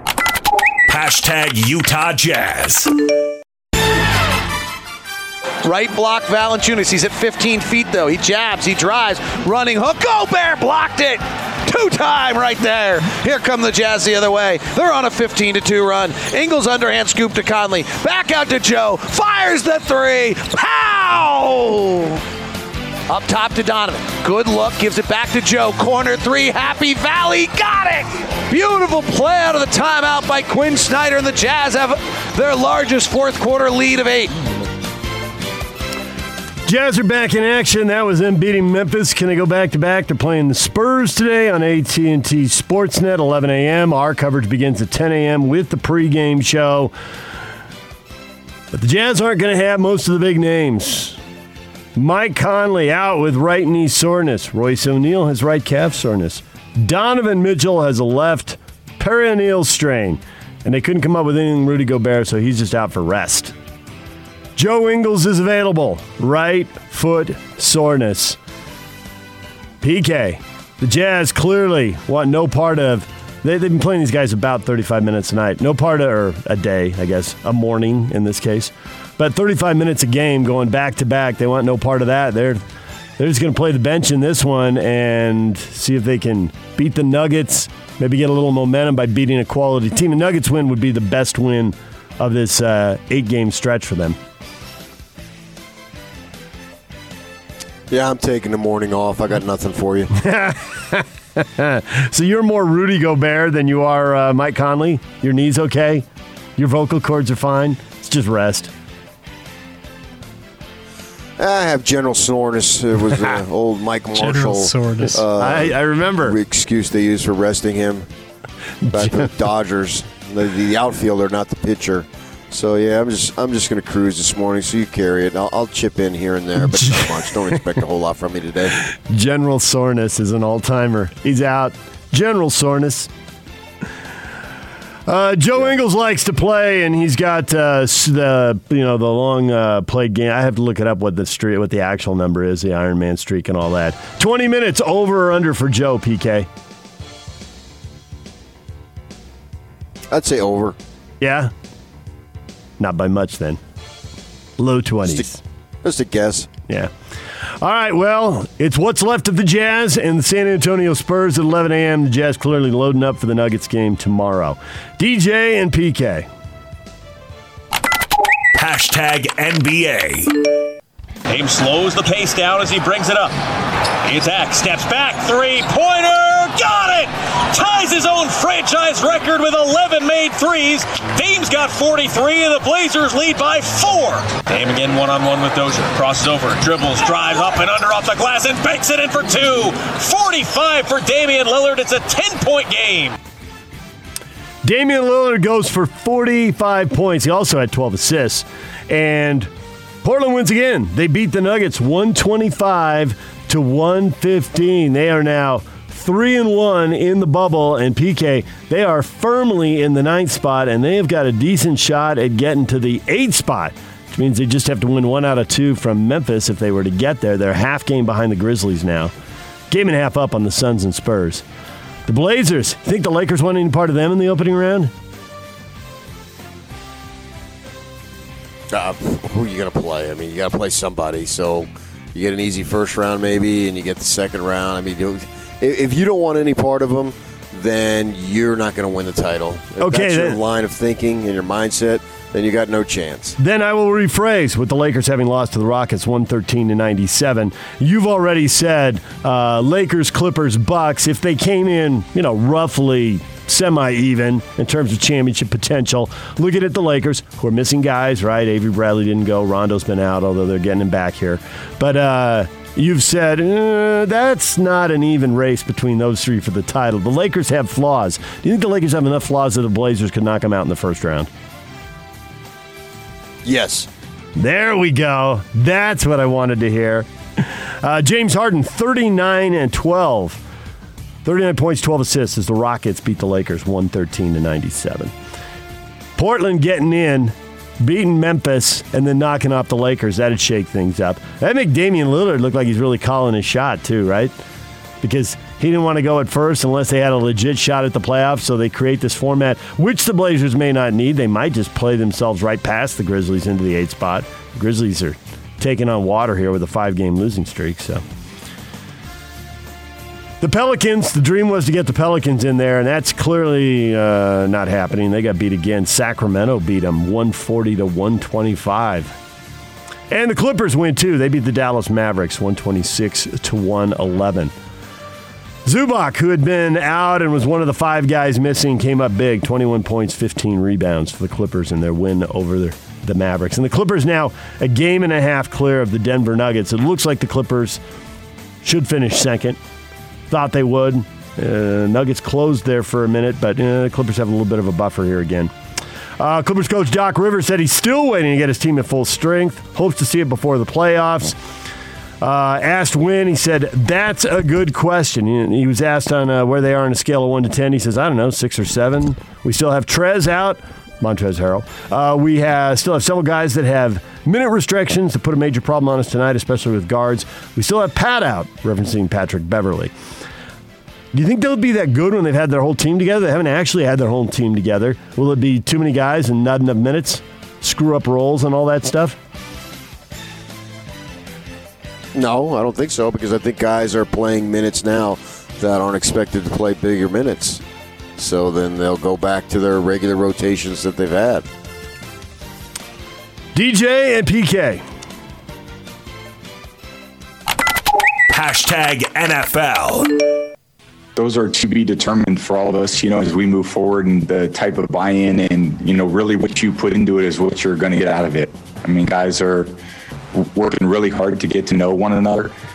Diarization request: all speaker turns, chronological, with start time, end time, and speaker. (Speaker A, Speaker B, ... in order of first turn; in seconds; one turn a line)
Speaker A: 0.9-2.9
Speaker B: 5.6-22.2
Speaker B: 23.1-34.4
Speaker C: 36.7-46.9
Speaker C: 48.7-51.2
Speaker C: 52.0-63.5
Speaker C: 64.6-68.4
Speaker C: 69.8-82.6
Speaker C: 83.2-94.2
Speaker D: 97.9-100.1
Speaker C: 100.2-106.0
Speaker C: 106.6-108.7
Speaker D: 111.4-118.1
Speaker C: 115.1-116.4
Speaker C: 118.8-119.3
Speaker D: 118.9-128.8
Speaker C: 126.7-127.3
Speaker C: 129.1-133.1
Speaker C: 135.1-146.5
Speaker D: 150.1-150.8
Speaker C: 151.2-151.5
Speaker C: 152.8-153.6
Speaker C: 154.6-155.4
Speaker D: 155.8-156.5
Speaker C: 157.6-166.3
Speaker A: 168.6-170.3
Speaker E: 171.3-173.4
Speaker E: 174.0-193.2
Speaker C: 194.6-199.5
Speaker C: 200.0-219.1
Speaker C: 219.7-221.4
Speaker C: 222.1-224.9
Speaker D: 228.7-243.4
Speaker C: 239.8-240.4
Speaker C: 243.4-271.3
Speaker D: 273.4-273.9
Speaker C: 274.4-280.4
Speaker C: 281.2-285.1
Speaker C: 286.2-294.3
Speaker C: 295.0-308.0
Speaker C: 310.4-319.1
Speaker C: 320.1-324.5
Speaker C: 325.6-337.8
Speaker C: 338.6-339.6
Speaker C: 340.3-345.5
Speaker C: 346.2-351.4
Speaker C: 352.2-369.9
Speaker C: 371.1-379.2
Speaker D: 382.1-387.6
Speaker D: 388.2-391.5
Speaker C: 393.6-394.8
Speaker A: 398.3-400.2
Speaker F: 401.2-409.7
Speaker F: 410.3-412.5